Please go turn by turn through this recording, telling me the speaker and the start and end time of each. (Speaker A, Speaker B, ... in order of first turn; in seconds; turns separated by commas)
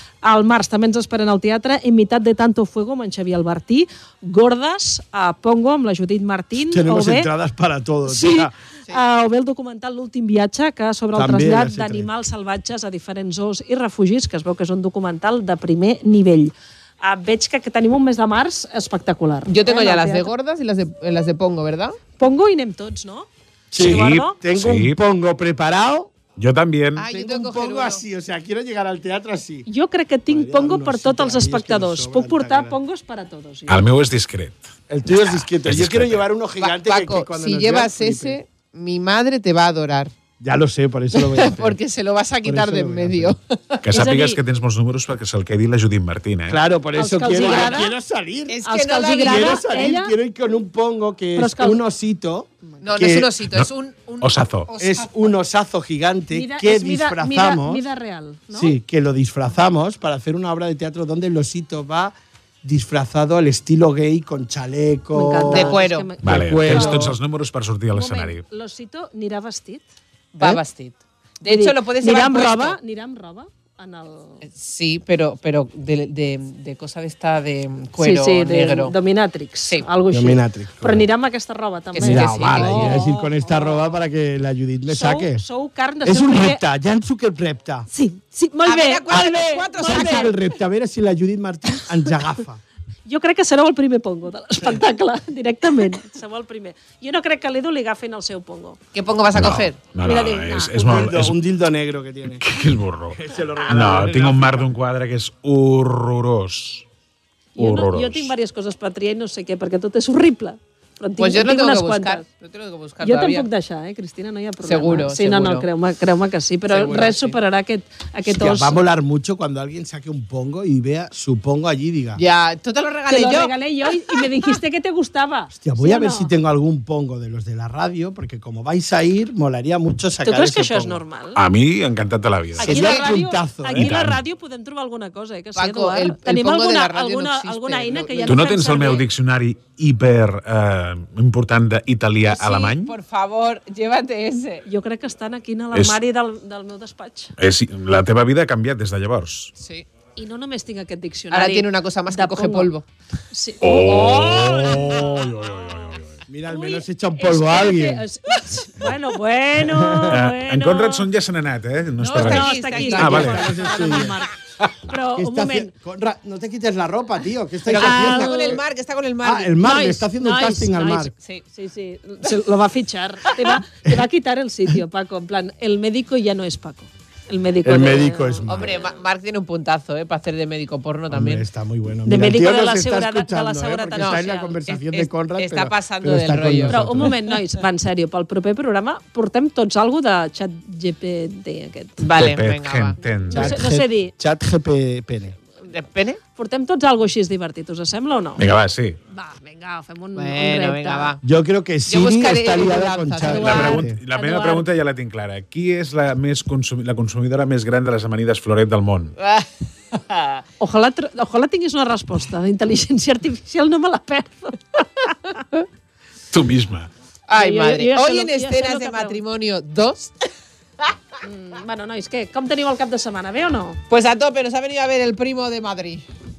Speaker A: 0.2-7.3, Speaker B: 6.6-8.6, Speaker A: 8.1-20.3, Speaker B: 11.1-12.1, Speaker C: 19.5-22.0, Speaker A: 22.2-24.4, Speaker B: 23.7-26.1, Speaker D: 23.8-25.0, Speaker D: 26.4-27.1, Speaker C: 27.0-28.0, Speaker B: 27.1-29.7, Speaker A: 29.7-33.8, Speaker B: 30.3-32.8, Speaker D: 33.7-36.2, Speaker B: 34.9-38.4, Speaker C: 36.6-40.2, Speaker B: 40.4-41.8, Speaker C: 41.1-43.8, Speaker B: 42.4-43.4, Speaker D: 43.8-46.6, Speaker A: 43.9-44.4, Speaker B: 46.5-48.6, Speaker A: 46.9-48.0, Speaker C: 47.3-47.7, Speaker C: 48.5-49.9, Speaker A: 48.6-50.2, Speaker B: 49.2-53.4, Speaker A: 51.4-51.8, Speaker C: 52.8-55.3, Speaker D: 54.2-54.7, Speaker B: 54.8-57.9, Speaker A: 56.3-58.8, Speaker B: 58.5-67.1, Speaker A: 65.1-67.1, Speaker C: 65.5-66.1, Speaker D: 66.2-68.5, Speaker A: 67.9-69.8, Speaker C: 70.3-72.8, Speaker A: 71.5-74.4, Speaker C: 74.4-79.0, Speaker A: 78.0-83.6, Speaker B: 80.1-81.1, Speaker C: 81.9-83.8, Speaker B: 82.0-85.4, Speaker A: 84.9-86.6, Speaker B: 86.0-87.9, Speaker A: 87.9-90.5, Speaker C: 88.7-90.3, Speaker B: 89.1-92.6, Speaker A: 91.8-92.1, Speaker A: 93.1-98.8, Speaker C: 98.9-99.9, Speaker D: 99.3-101.4, Speaker A: 100.0-101.1, Speaker B: 100.8-102.4, Speaker D: 102.4-106.8, Speaker B: 103.1-104.7, Speaker A: 107.6-112.3, Speaker D: 107.6-108.3, Speaker C: 111.2-113.5, Speaker A: 113.0-118.8, Speaker C: 114.6-115.7, Speaker C: 116.7-117.4, Speaker B: 118.3-122.2, Speaker C: 122.2-124.6, Speaker A: 123.1-126.3, Speaker B: 125.5-131.0, Speaker A: 130.2-131.4, Speaker D: 131.3-132.8, Speaker A: 132.6-139.1, Speaker B: 132.6-133.9, Speaker C: 132.7-133.1, Speaker D: 133.8-134.2, Speaker C: 135.6-138.9, Speaker D: 138.3-142.9, Speaker C: 142.3-144.7, Speaker A: 144.7-147.3, Speaker D: 145.7-146.0, Speaker D: 147.4-149.5, Speaker C: 149.6-149.9, Speaker A: 150.2-152.7, Speaker C: 151.3-152.8, Speaker A: 153.3-155.2, Speaker D: 153.6-156.2, Speaker B: 156.3-158.1, Speaker A: 156.5-161.1, Speaker B: 159.6-160.2, Speaker D: 160.1-163.4, Speaker C: 162.0-164.2, Speaker A: 162.1-164.3, Speaker B: 163.0-164.2, Speaker A: 164.8-165.7, Speaker B: 165.2-168.6, Speaker C: 167.7-169.6, Speaker A: 167.7-168.6, Speaker B: 169.2-171.1, Speaker A: 169.6-178.7, Speaker B: 177.6-178.9, Speaker C: 178.4-181.5, Speaker B: 181.1-187.2, Speaker A: 182.0-184.6, Speaker C: 183.9-187.4, Speaker A: 186.7-192.0, Speaker C: 192.0-193.0, Speaker D: 192.1-193.6, Speaker A: 193.1-194.2, Speaker B: 193.3-195.4, Speaker C: 195.7-196.2, Speaker A: 196.3-198.4, Speaker D: 198.4-199.0, Speaker A: 199.1-201.2, Speaker C: 200.2-201.2, Speaker B: 201.2-204.0, Speaker C: 201.9-203.8, Speaker A: 203.3-204.7, Speaker D: 203.4-209.1, Speaker C: 209.2-210.4, Speaker A: 210.6-215.1, Speaker D: 216.3-216.9, Speaker C: 217.3-220.3, Speaker A: 217.3-219.2, Speaker A: 221.2-223.8, Speaker C: 223.9-226.1